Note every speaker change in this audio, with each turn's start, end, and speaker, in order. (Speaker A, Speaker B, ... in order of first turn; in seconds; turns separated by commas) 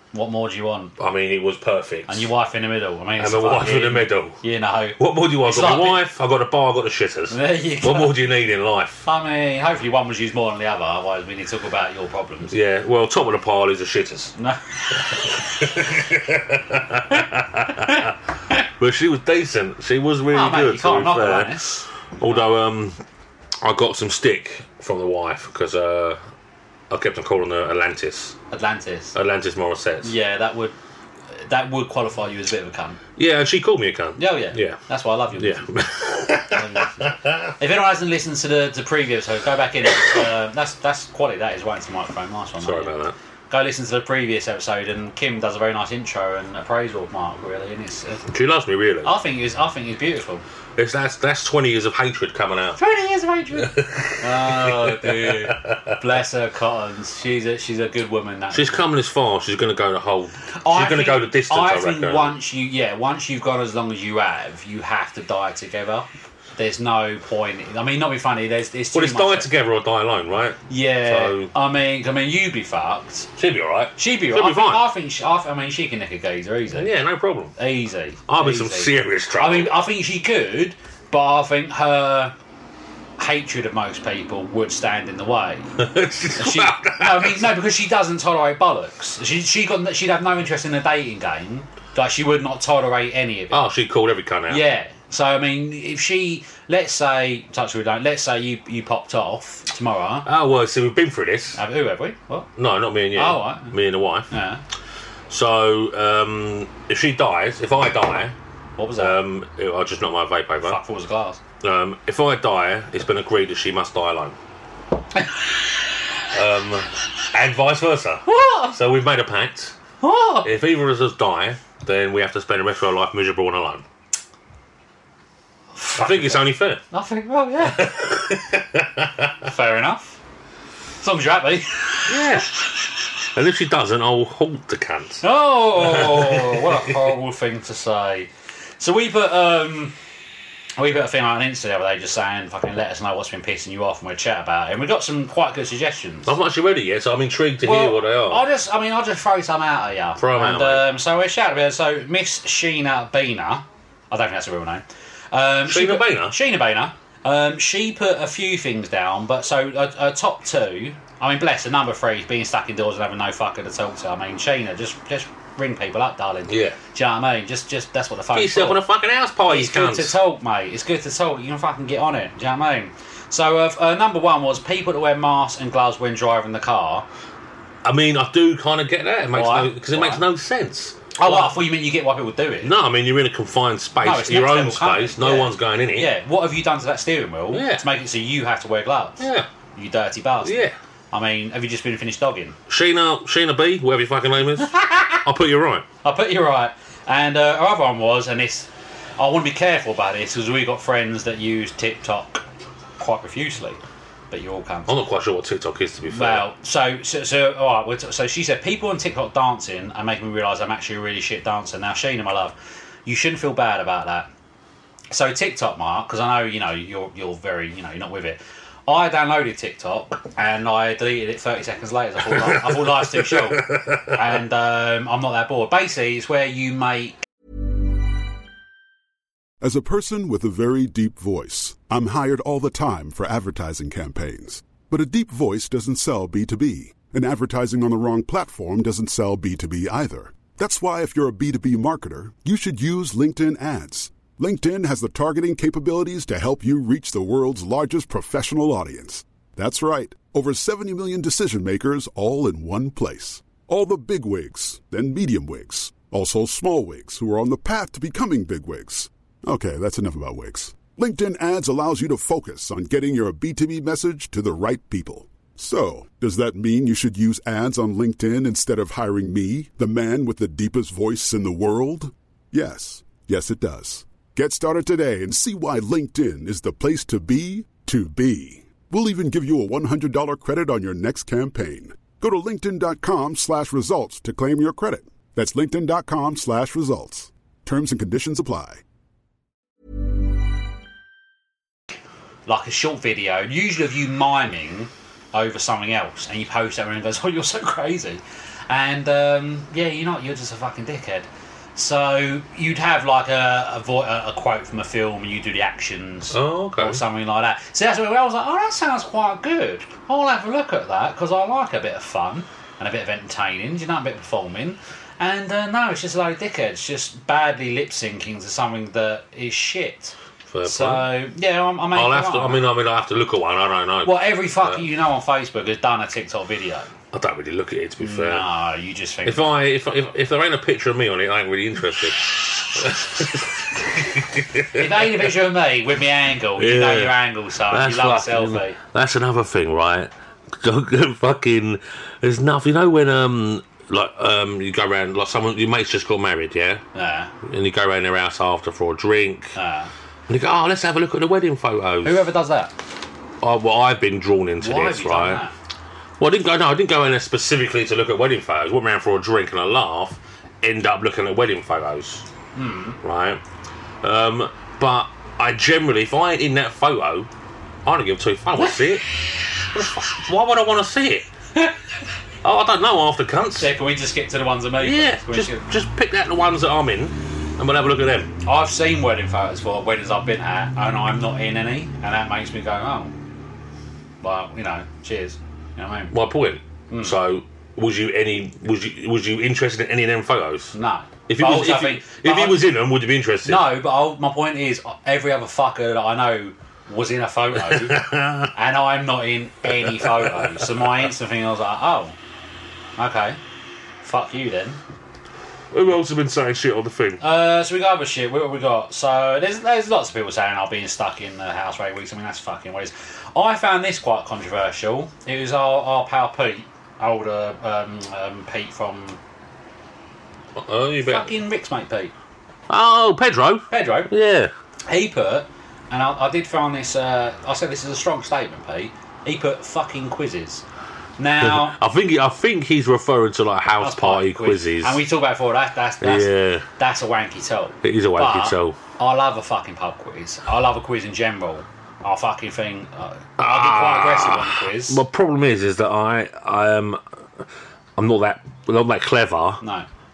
Speaker A: 0.1-0.9, Speaker B: 1.0-2.3, Speaker A: 2.1-6.0, Speaker B: 3.2-4.4, Speaker B: 5.0-9.1, Speaker A: 7.3-8.2, Speaker A: 9.0-12.5, Speaker B: 12.5-14.3, Speaker A: 14.4-15.5, Speaker B: 15.1-18.1, Speaker B: 18.6-23.0, Speaker A: 20.3-22.4, Speaker B: 23.6-26.2, Speaker B: 26.9-28.4, Speaker A: 28.5-29.1, Speaker B: 29.1-30.1, Speaker A: 30.0-30.8, Speaker A: 31.3-33.0, Speaker B: 33.2-34.8, Speaker A: 34.2-35.7, Speaker B: 35.4-37.5, Speaker A: 36.5-42.9, Speaker B: 42.6-43.2, Speaker A: 43.5-48.2, Speaker B: 48.3-49.1, Speaker A: 49.0-50.4, Speaker B: 50.8-52.8, Speaker A: 52.8-58.8, Speaker B: 53.6-56.0, Speaker B: 58.5-62.4, Speaker A: 60.5-69.5, Speaker B: 68.9-71.5, Speaker A: 70.7-73.3, Speaker B: 73.4-74.8, Speaker A: 74.0-76.9, Speaker B: 76.7-77.5, Speaker A: 77.6-82.3, Speaker B: 78.3-79.8, Speaker A: 83.2-85.8, Speaker B: 85.8-87.5, Speaker A: 86.4-93.6, Speaker B: 93.5-94.6, Speaker A: 94.5-100.3, Speaker B: 100.3-101.6, Speaker A: 101.5-102.5, Speaker B: 102.6-104.3, Speaker A: 103.2-103.8, Speaker A: 104.3-104.6, Speaker B: 105.3-108.3, Speaker A: 108.8-109.2, Speaker B: 109.0-110.8, Speaker A: 110.6-111.4, Speaker B: 111.6-114.4, Speaker B: 116.3-119.8, Speaker A: 118.3-118.8, Speaker A: 120.0-120.5, Speaker B: 120.4-123.8, Speaker A: 125.8-128.0, Speaker B: 125.9-126.8, Speaker B: 127.7-129.3, Speaker A: 129.4-130.2, Speaker A: 131.0-132.3, Speaker B: 132.1-132.6, Speaker B: 133.3-135.2, Speaker A: 135.2-139.9, Speaker B: 135.8-136.9, Speaker A: 140.8-146.3, Speaker B: 146.3-148.4, Speaker A: 147.6-168.8, Speaker B: 150.2-150.9, Speaker B: 155.7-156.4, Speaker B: 166.5-166.8, Speaker B: 168.3-170.2, Speaker A: 169.5-177.1, Speaker B: 177.8-181.6, Speaker A: 179.3-180.2, Speaker A: 181.2-182.7, Speaker B: 182.6-186.1, Speaker A: 184.0-190.6, Speaker B: 187.5-187.8, Speaker B: 189.2-189.5, Speaker B: 190.4-190.8, Speaker A: 191.1-192.6, Speaker B: 192.7-195.8, Speaker A: 194.6-195.2, Speaker A: 196.0-202.4, Speaker A: 203.0-203.8, Speaker A: 204.3-204.9, Speaker B: 204.9-206.5, Speaker A: 206.1-214.3, Speaker A: 215.1-227.3, Speaker B: 222.4-224.2, Speaker C: 229.6-288.8, Speaker A: 292.5-322.7, Speaker B: 306.3-307.0, Speaker B: 320.5-321.1, Speaker B: 321.9-324.8, Speaker A: 324.0-326.9, Speaker B: 327.1-328.5, Speaker A: 328.0-329.5, Speaker B: 329.2-335.1, Speaker A: 334.7-338.8, Speaker B: 336.6-346.8, Speaker A: 346.9-347.3, Speaker B: 347.4-349.6, Speaker A: 349.6-349.9, Speaker B: 350.3-352.3, Speaker A: 352.0-352.7, Speaker B: 353.4-355.4, Speaker A: 354.6-355.5, Speaker B: 356.2-362.2, Speaker A: 362.6-363.0, Speaker B: 363.0-363.4, Speaker B: 364.0-367.3, Speaker B: 367.9-369.1, Speaker B: 369.7-371.3, Speaker B: 372.4-373.7, Speaker A: 373.6-375.6, Speaker B: 374.8-378.3, Speaker A: 378.4-383.1, Speaker A: 384.2-386.1, Speaker B: 386.1-390.8, Speaker A: 386.9-387.2, Speaker A: 390.7-392.6, Speaker B: 391.3-393.7, Speaker A: 393.4-402.2, Speaker B: 397.6-398.5, Speaker B: 399.7-400.9, Speaker A: 403.0-403.4, Speaker A: 404.0-404.8, Speaker B: 405.7-407.2, Speaker A: 407.2-419.2, Speaker B: 420.6-421.4, Speaker A: 421.0-422.1, Speaker B: 422.7-424.5, Speaker A: 423.7-424.1, Speaker A: 424.9-430.6, Speaker A: 431.2-431.8, Speaker B: 431.4-435.0, Speaker A: 433.8-445.0, Speaker B: 436.0-436.7, Speaker B: 437.8-438.8, Speaker B: 443.4-447.0, Speaker B: 448.0-449.6, Speaker A: 449.6-449.9